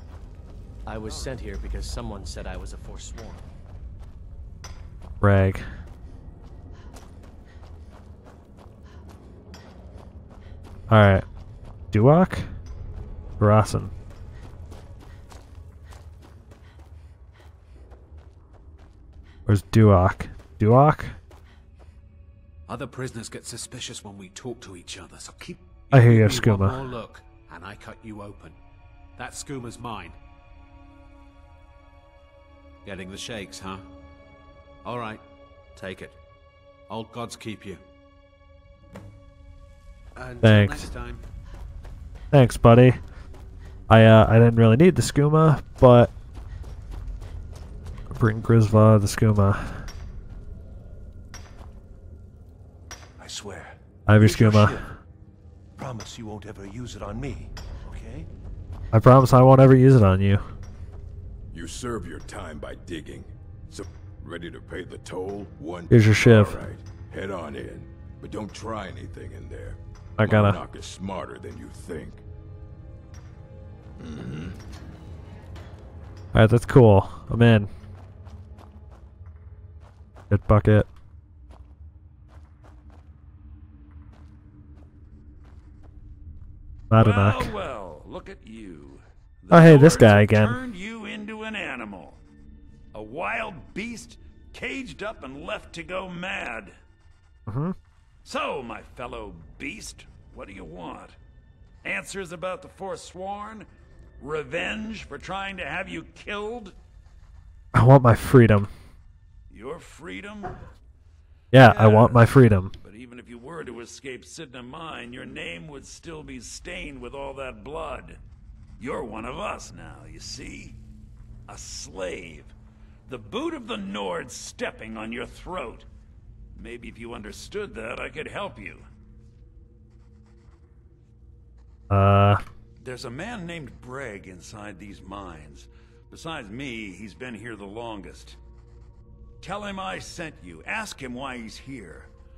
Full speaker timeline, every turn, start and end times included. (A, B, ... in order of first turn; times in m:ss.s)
0:00.8-0:03.5 A
0:05.2-0:05.6 B
0:10.9-0:11.2 B
0:11.9-0:12.5 B
0:13.4-0:13.9 B
0:19.5-0:21.2 B
0:22.7-0:28.6 C
0:25.9-0:26.9 B
0:29.2-0:30.2 C
0:32.8-0:33.8 C
0:34.8-0:35.2 C
0:35.7-0:36.2 C
0:36.9-0:37.8 C
0:40.1-0:41.2 C
0:40.4-0:40.9 B
0:42.3-0:43.0 B
0:43.9-0:46.1 B
0:48.1-0:49.9 B
0:53.2-0:54.9 D
0:54.1-0:54.8 B
0:55.8-0:58.3 D
0:58.9-1:00.5 B
1:01.5-1:12.2 E
1:05.9-1:06.6 B
1:10.2-1:10.6 B
1:14.0-1:14.6 E
1:16.3-1:17.7 B
1:20.3-1:20.9 B
1:26.9-1:27.5 B
1:26.9-1:32.2 F
1:29.5-1:30.6 B
1:32.9-1:36.8 F
1:37.5-1:37.8 B
1:38.2-1:41.2 F
1:41.8-1:43.7 F
1:44.2-1:46.7 F
1:47.7-1:48.7 B
1:49.5-1:50.6 F
1:51.5-1:52.7 B
1:51.5-1:58.2 F
1:58.8-2:00.8 F
2:01.5-2:02.5 F
2:03.1-2:05.9 F
2:06.6-2:08.8 F
2:11.9-2:12.4 B
2:12.8-2:18.4 F
2:19.4-2:22.1 F